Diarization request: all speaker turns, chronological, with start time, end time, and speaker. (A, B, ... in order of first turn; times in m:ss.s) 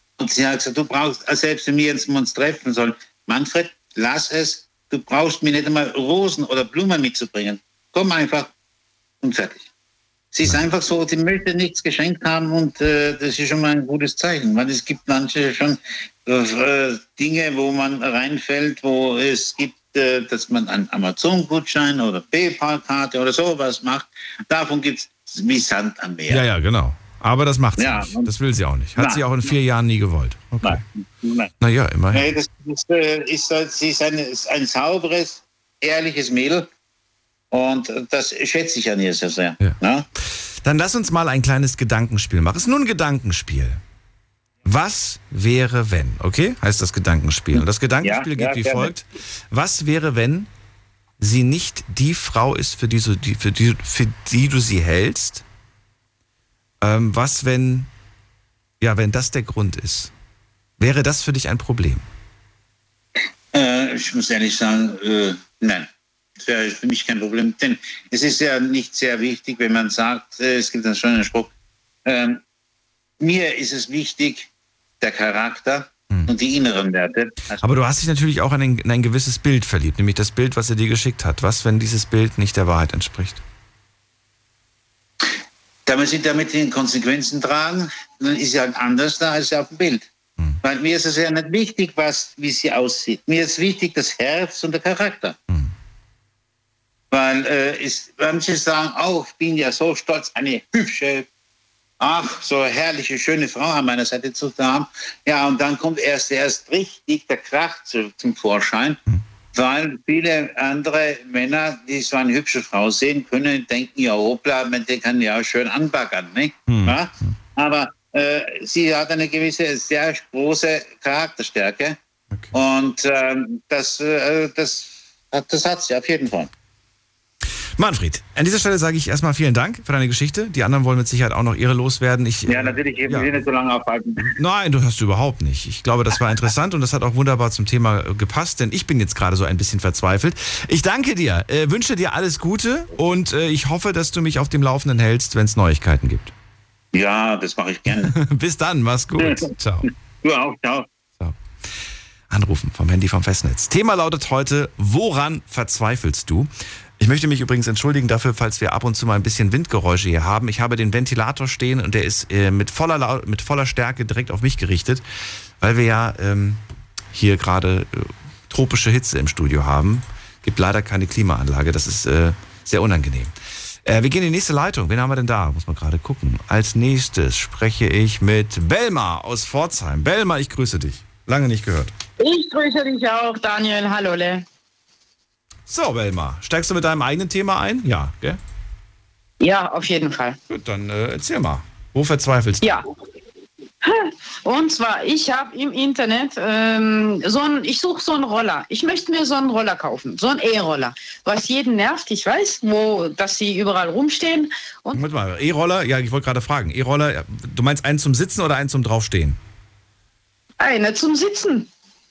0:00.2-0:08.5 A
0:09.2-0:09.7 A
0:10.3-0:26.4 A
0:26.3-0:30.8 B
0:27.8-0:28.3 A
0:29.0-0:29.2 A
0:30.6-0:31.5 A
0:31.6-0:32.3 B
0:32.1-0:36.7 A
0:37.5-0:40.1 A
0:40.6-0:43.8 B
0:44.6-0:50.5 B
0:47.5-0:48.9 A
0:51.2-0:55.4 B
0:56.8-0:57.9 B
0:58.8-1:00.1 B
1:00.8-1:02.0 B
1:03.5-1:11.5 A
1:12.0-1:12.4 A
1:13.2-1:14.5 A
1:15.0-1:17.6 A
1:17.6-1:23.4 B
1:25.8-1:30.1 A
1:30.6-1:35.4 A
1:37.1-1:41.3 A
1:42.0-1:49.0 A
1:49.5-2:02.0 A
1:56.7-1:57.4 B
2:02.5-2:06.5 A
2:07.8-2:13.4 B
2:12.5-2:14.3 A
2:14.2-2:26.3 B
2:26.9-2:28.1 A
2:28.0-2:29.9 B
2:29.2-2:29.5 A
2:30.2-2:30.9 A
2:32.3-2:45.0 B
2:45.6-2:46.6 B
2:47.1-2:53.3 B
2:53.8-3:01.9 B
3:02.2-3:04.4 C
3:05.7-3:08.4 B
3:09.4-3:10.4 C
3:10.5-3:12.8 B
3:13.8-3:25.0 C
3:24.9-3:29.4 B
3:30.6-3:31.7 C